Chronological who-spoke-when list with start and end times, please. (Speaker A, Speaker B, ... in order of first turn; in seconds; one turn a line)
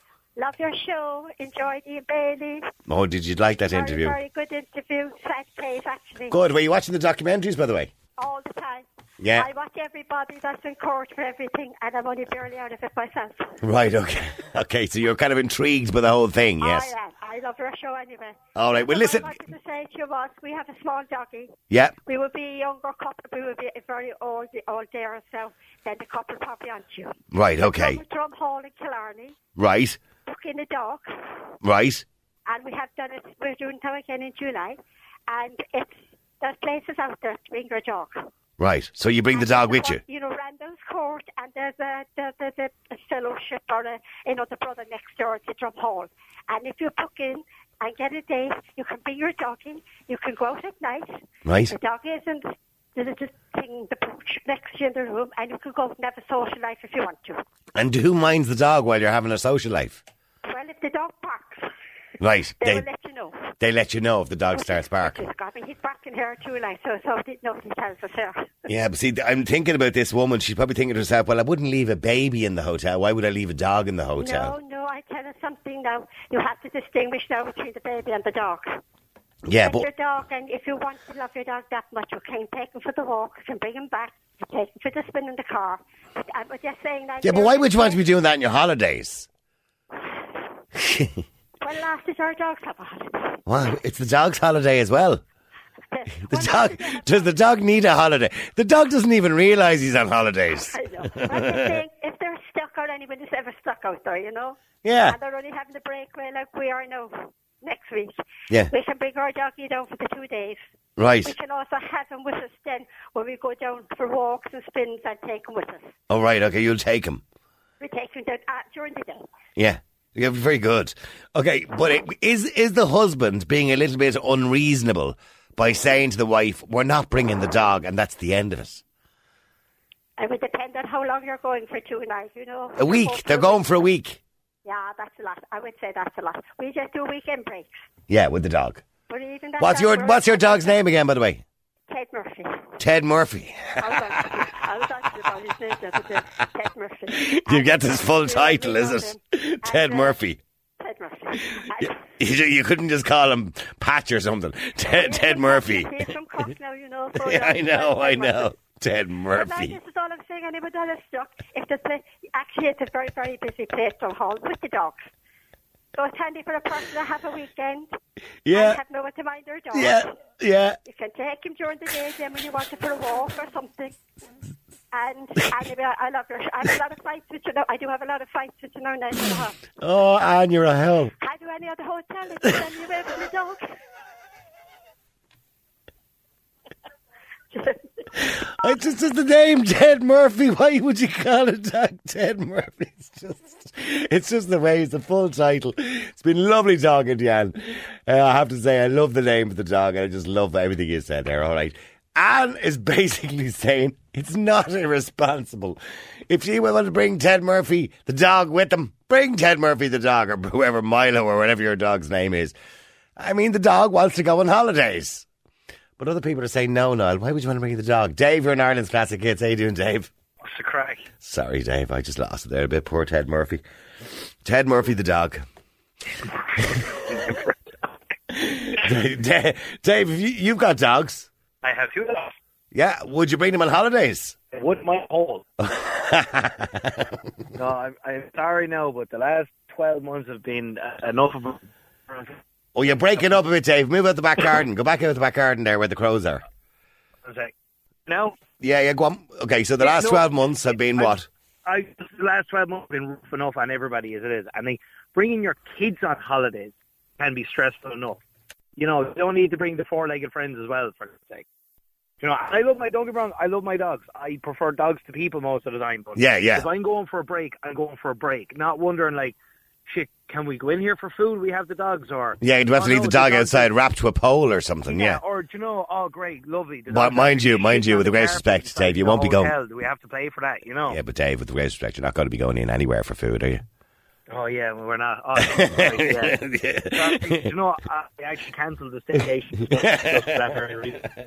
Speaker A: 0.4-2.7
Speaker B: 2.9-4.2
Speaker A: 3.7-6.4
Speaker B: 6.3-7.9
Speaker A: 8.2-13.6
Speaker B: 9.2-9.5
Speaker B: 13.6-16.9
Speaker A: 16.6-21.5
Speaker B: 18.6-19.4
Speaker B: 21.7-21.9
Speaker A: 22.1-29.4
Speaker B: 27.3-28.0
Speaker B: 29.6-30.0
Speaker A: 30.2-31.5
Speaker B: 31.6-32.0
Speaker A: 32.5-38.2
Speaker B: 38.6-40.0
Speaker A: 39.3-57.4
Speaker B: 51.4-51.7
Speaker B: 57.8-60.0
Speaker A: 60.4-61.7
Speaker B: 62.2-62.9
Speaker A: 62.6-63.5
Speaker B: 63.6-65.2
Speaker A: 64.5-68.5
Speaker B: 68.7-74.5
Speaker A: 74.2-78.8
Speaker B: 79.5-79.8
Speaker A: 79.6-88.0
Speaker B: 87.2-89.3
Speaker A: 90.0-90.3
Speaker B: 90.8-91.2
Speaker A: 91.6-93.4
Speaker B: 93.5-95.2
Speaker A: 95.9-97.3
Speaker B: 96.2-101.7
Speaker A: 100.7-108.2
Speaker B: 104.8-105.2
Speaker A: 108.7-110.6
Speaker B: 111.0-111.3
Speaker A: 111.2-115.9
Speaker B: 116.1-117.2
Speaker A: 117.8-119.3
Speaker B: 119.5-128.8
Speaker A: 130.2-133.6
Speaker B: 132.8-134.2
Speaker A: 134.6-137.8
Speaker B: 138.1-138.8
Speaker A: 139.1-140.8
Speaker B: 139.6-141.4
Speaker A: 141.9-142.7
Speaker B: 142.8-144.6
Speaker A: 143.8-150.2
Speaker B: 147.1-150.4
Speaker A: 150.8-152.1
Speaker B: 151.7-156.1
Speaker A: 154.8-158.5
Speaker B: 157.1-159.8
Speaker A: 159.3-165.1
Speaker A: 165.9-167.9
Speaker B: 168.4-168.8
Speaker A: 168.5-170.1
Speaker B: 169.7-170.8
Speaker A: 170.8-173.9
Speaker A: 174.9-179.6
Speaker B: 179.8-181.1
Speaker A: 181.2-183.6
Speaker A: 187.5-188.2
Speaker B: 188.2-212.5
Speaker B: 213.2-215.3
Speaker B: 216.0-220.1
Speaker C: 220.4-221.1
Speaker B: 221.2-223.6
Speaker B: 224.4-225.4
Speaker C: 226.6-227.4
Speaker B: 226.6-227.2
Speaker B: 228.3-231.3
Speaker C: 231.6-232.3
Speaker B: 232.7-234.4
Speaker C: 234.5-235.4
Speaker B: 235.6-237.1
Speaker C: 237.5-242.4
Speaker B: 242.7-246.4
Speaker C: 247.2-247.5
Speaker C: 248.1-248.4
Speaker B: 248.6-251.3
Speaker C: 249.8-250.3
Speaker C: 250.8-251.1
Speaker C: 251.6-258.2
Speaker C: 258.8-261.4
Speaker C: 262.2-273.7
Speaker B: 266.1-266.7
Speaker B: 272.4-275.2
Speaker C: 274.9-281.0
Speaker B: 276.9-279.5
Speaker B: 280.9-283.6
Speaker C: 284.3-291.1
Speaker B: 285.4-287.5
Speaker B: 289.7-290.4